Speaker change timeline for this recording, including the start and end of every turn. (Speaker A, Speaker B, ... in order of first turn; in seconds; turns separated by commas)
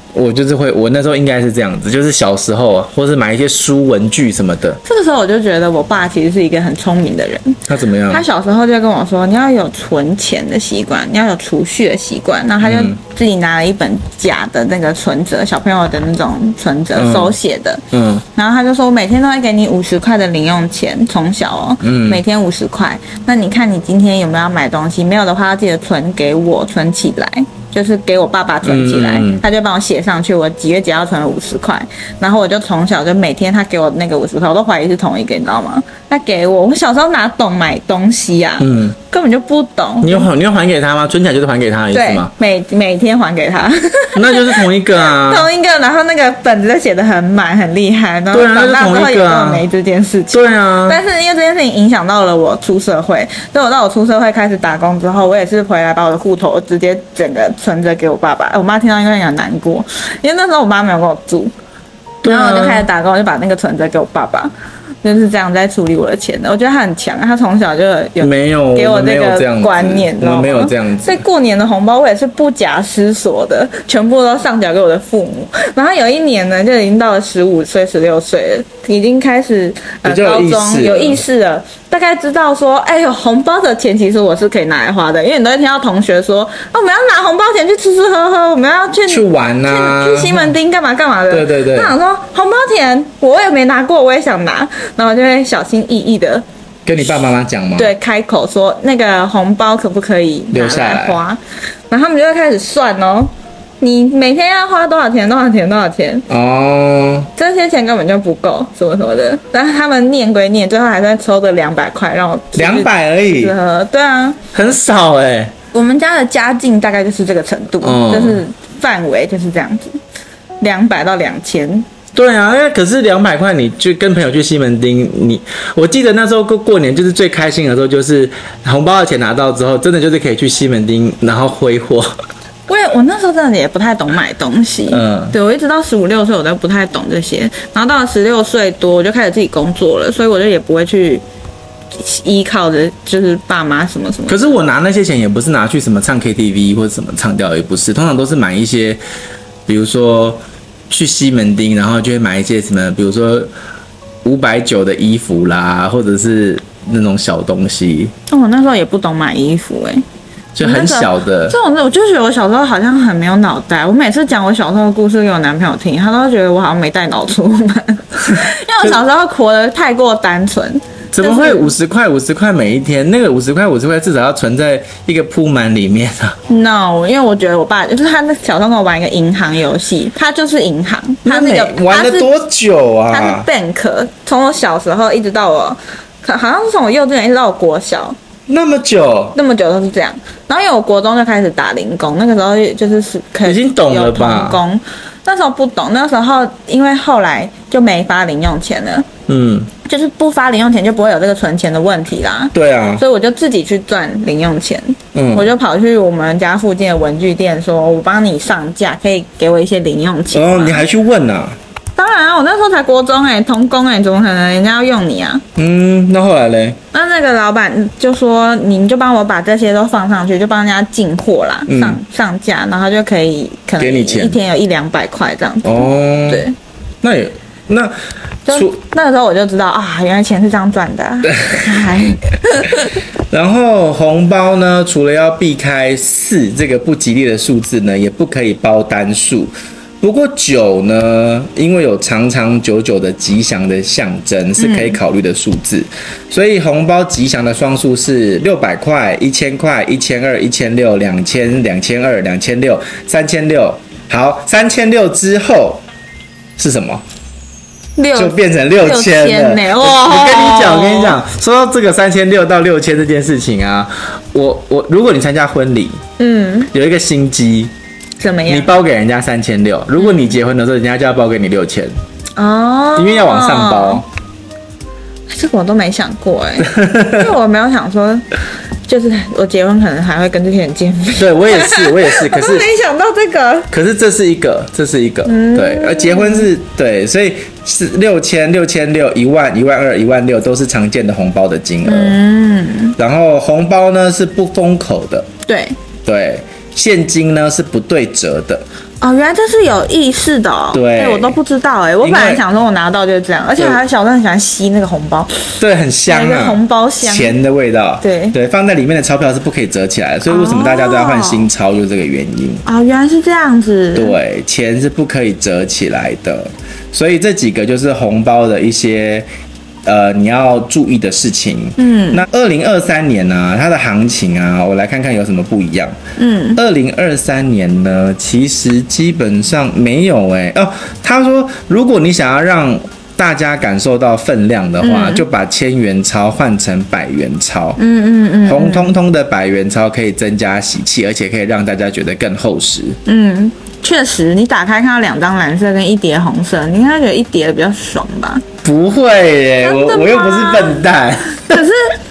Speaker A: 0.1-4.8, Speaker B: 4.8-40.3, Speaker A: 7.7-8.2, Speaker A: 12.6-13.0, Speaker A: 16.9-17.3, Speaker A: 17.9-18.2, Speaker A: 21.8-22.2, Speaker A: 28.6-29.4, Speaker A: 38.6-39.0, Speaker A: 40.0-42.3, Speaker B: 41.9-61.5, Speaker A: 44.1-45.5, Speaker A: 48.3-49.6, Speaker A: 50.3-51.0, Speaker A: 62.2-62.9, Speaker B: 62.2-64.5, Speaker B: 65.0-96.4, Speaker A: 68.2-71.2, Speaker A: 80.0-81.2, Speaker A: 89.1-90.5, Speaker A: 91.3-91.9, Speaker A: 96.8-97.9, Speaker B: 97.8-106.2, Speaker A: 100.5-101.2, Speaker A: 106.3-107.3, Speaker B: 107.4-114.4, Speaker A: 112.5-113.5, Speaker A: 114.5-115.5, Speaker B: 115.7-120.0, Speaker A: 117.8-118.4, Speaker B: 120.6-121.9, Speaker A: 122.1-132.1, Speaker B: 132.7-141.2, Speaker A: 134.9-135.3, Speaker B: 141.9-144.4, Speaker A: 144.3-149.0, Speaker A: 149.7-153.5, Speaker A: 154.2-158.1, Speaker B: 158.3-160.0, Speaker A: 160.5-161.6, Speaker B: 160.6-171.7, Speaker A: 171.1-176.4, Speaker B: 176.5-182.3, Speaker A: 181.2-183.4, Speaker B: 183.1-188.2, Speaker A: 188.5-189.4, Speaker B: 189.3-199.1, Speaker A: 193.4-194.6, Speaker A: 199.3-199.7, Speaker B: 199.8-210.8, Speaker A: 202.5-203.0, Speaker A: 205.1-205.5, Speaker A: 210.3-211.6, Speaker B: 211.9-215.4, Speaker A: 215.6-216.8, Speaker B: 216.9-226.6, Speaker A: 221.7-222.0, Speaker A: 223.8-224.4, Speaker A: 225.6-226.4, Speaker A: 227.0-227.9, Speaker B: 228.5-233.0, Speaker A: 228.5-228.8, Speaker A: 233.3-255.8, Speaker B: 244.6-245.0, Speaker A: 256.6-257.0, Speaker B: 258.0-261.2, Speaker A: 258.1-266.0, Speaker B: 266.2-266.7, Speaker A: 266.7-267.7, Speaker B: 268.2-268.7, Speaker A: 268.5-271.9, Speaker B: 270.0-270.4, Speaker B: 272.3-274.0, Speaker A: 272.9-274.0, Speaker B: 275.3-278.2, Speaker A: 276.6-277.2, Speaker B: 278.9-283.7, Speaker A: 281.1-282.7, Speaker A: 283.7-292.2, Speaker B: 285.2-286.5, Speaker B: 291.8-292.9, Speaker A: 293.0-295.3, Speaker B: 295.4-295.8, Speaker A: 296.0-298.6, Speaker B: 299.0-305.5, Speaker A: 300.7-301.4, Speaker A: 302.0-302.4, Speaker A: 305.6-312.6, Speaker B: 306.1-307.4, Speaker B: 308.0-308.3, Speaker B: 310.3-311.4, Speaker B: 312.6-314.1, Speaker A: 313.9-319.2, Speaker A: 319.8-326.0, Speaker B: 321.8-322.2, Speaker B: 326.2-326.6, Speaker A: 326.6-337.8, Speaker B: 334.8-335.3, Speaker B: 337.8-339.0, Speaker A: 338.4-343.0, Speaker B: 343.1-348.4, Speaker A: 348.6-351.6, Speaker B: 349.6-350.8, Speaker B: 351.4-352.0